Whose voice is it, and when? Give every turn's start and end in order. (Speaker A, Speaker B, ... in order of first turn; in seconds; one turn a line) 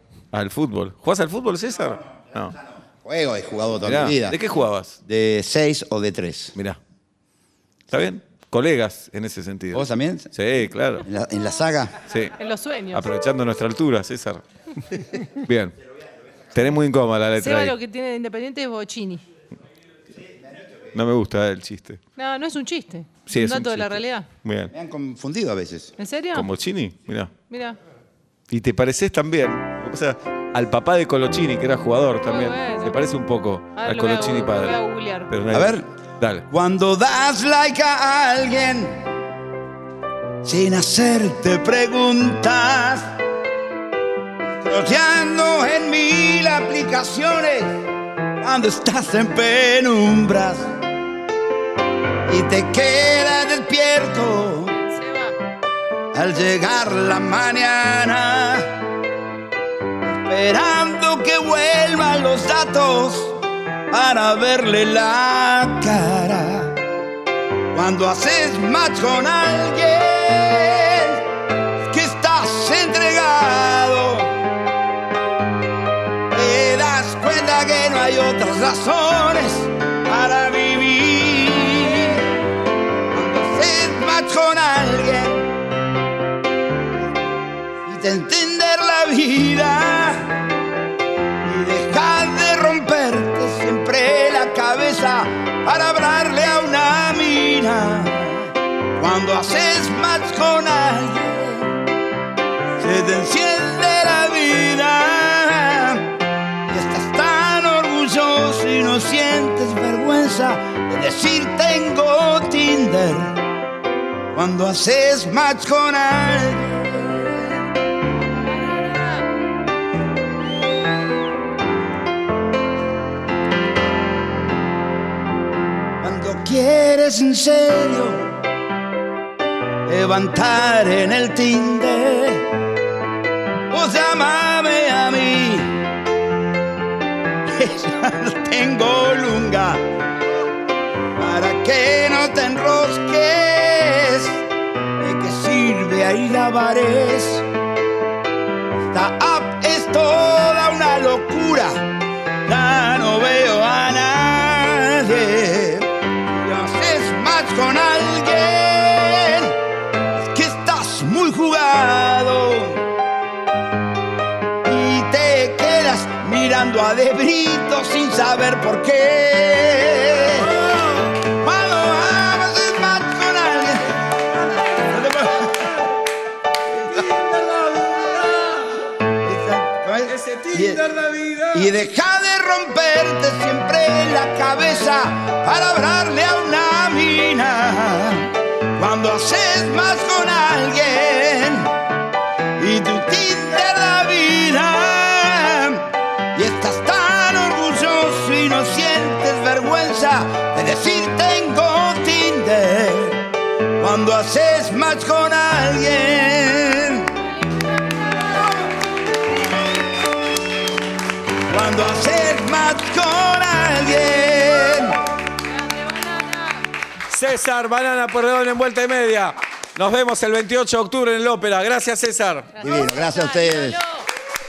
Speaker A: 0.3-2.6
Speaker B: 3.0-4.4
Speaker A: 3.9-5.0
Speaker B: 5.1-6.5
Speaker A: 7.9-11.1
Speaker B: 9.7-10.3
Speaker B: 11.0-12.0
Speaker A: 12.1-12.4
Speaker C: 12.4-13.1
Speaker A: 12.9-15.7
Speaker A: 16.5-17.7
Speaker C: 17.4-19.2
Speaker A: 20.9-22.0
Speaker C: 22.2-24.3
Speaker A: 23.3-24.7
Speaker B: 24.7-25.9
Speaker C: 26.0-26.5
Speaker A: 26.3-27.3
Speaker C: 27.5-27.8
Speaker A: 28.5-36.4
Speaker C: 32.2-33.1
Speaker C: 33.8-35.3
Speaker B: 35.5-35.9
Speaker B: 36.5-39.1
Speaker B: 40.4-43.1
Speaker B: 44.6-47.9
Speaker B: 48.4-50.8
Speaker B: 52.2-54.8
Speaker C: 54.7-55.4
Speaker B: 56.1-58.8
Speaker B: 60.1-66.8
Speaker B: 67.7-71.2
Speaker B: 71.9-74.4
Speaker B: 76.3-82.3
Speaker B: 83.1-85.5
Speaker B: 87.8-90.4
Speaker B: 91.4-101.8
Speaker B: 102.8-113.4
Speaker B: 114.3-117.6
Speaker C: 118.2-119.3
Speaker B: 126.0-128.3
Speaker B: 129.9-132.6
Speaker B: 133.7-135.9
Speaker B: 137.4-139.8
Speaker B: 141.2-144.4
Speaker B: 145.0-147.4
Speaker B: 148.8-151.9
Speaker B: 152.4-159.6
Speaker B: 160.1-162.9
Speaker B: 164.6-170.6
Speaker A: 170.2-171.1
Speaker B: 171.2-175.8
Speaker A: 174.3-175.8
Speaker A: 176.7-178.8
Speaker B: 179.2-180.9
Speaker A: 180.1-181.7
Speaker B: 181.5-191.8
Speaker B: 192.6-207.2
Speaker C: 207.1-208.6
Speaker B: 211.4-215.0
Speaker C: 215.4-216.6
Speaker A: 217.1-222.5
Speaker C: 222.5-224.1
Speaker B: 222.6-223.8